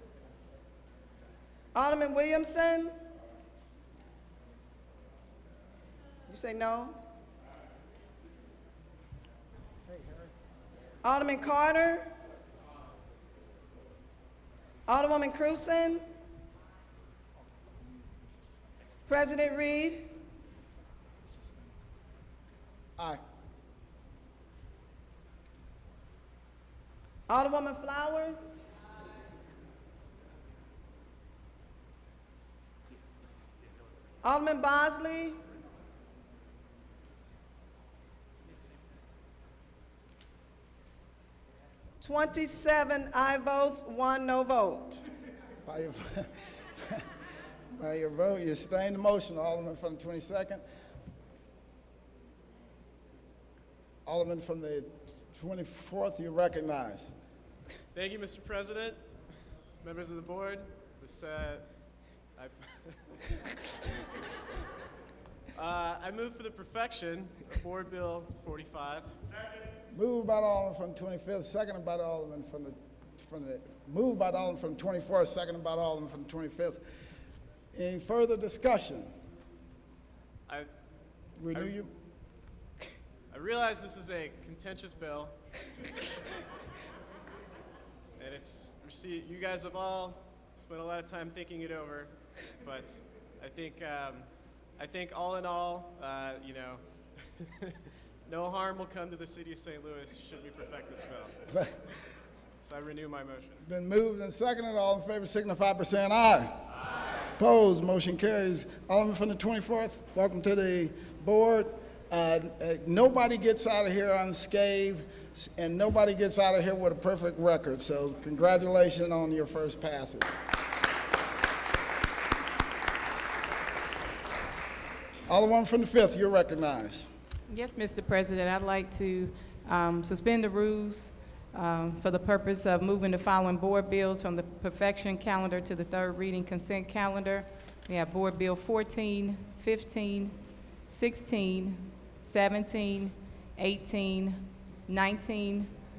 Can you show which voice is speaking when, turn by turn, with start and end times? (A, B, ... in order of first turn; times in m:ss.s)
0:01.7-0:02.9 A
0:06.3-0:06.9 A
0:11.0-0:12.1 A
0:14.9-0:16.0 A
0:19.1-0:20.1 A
0:27.3-0:28.4 A
0:34.2-0:35.4 A
0:42.0-0:45.0 A
0:45.6-0:47.0 B
0:47.7-0:50.6 B
0:54.0-0:57.1 B
0:57.9-0:59.0 C
0:59.8-1:01.6 C
1:02.4-1:03.4 C
1:05.5-1:09.2 C
1:09.9-1:16.8 B
1:17.7-1:19.1 B
1:21.4-1:21.9 B
1:23.3-1:25.3 C
1:28.2-1:36.8 C
1:37.4-1:37.7 C
1:38.2-1:41.3 C
1:41.5-1:41.8 B
1:42.6-1:43.6 C
1:43.6-1:46.6 B
1:47.4-2:00.3 B
2:05.3-2:07.1 B
2:07.5-2:20.3 D
2:20.9-2:25.7 D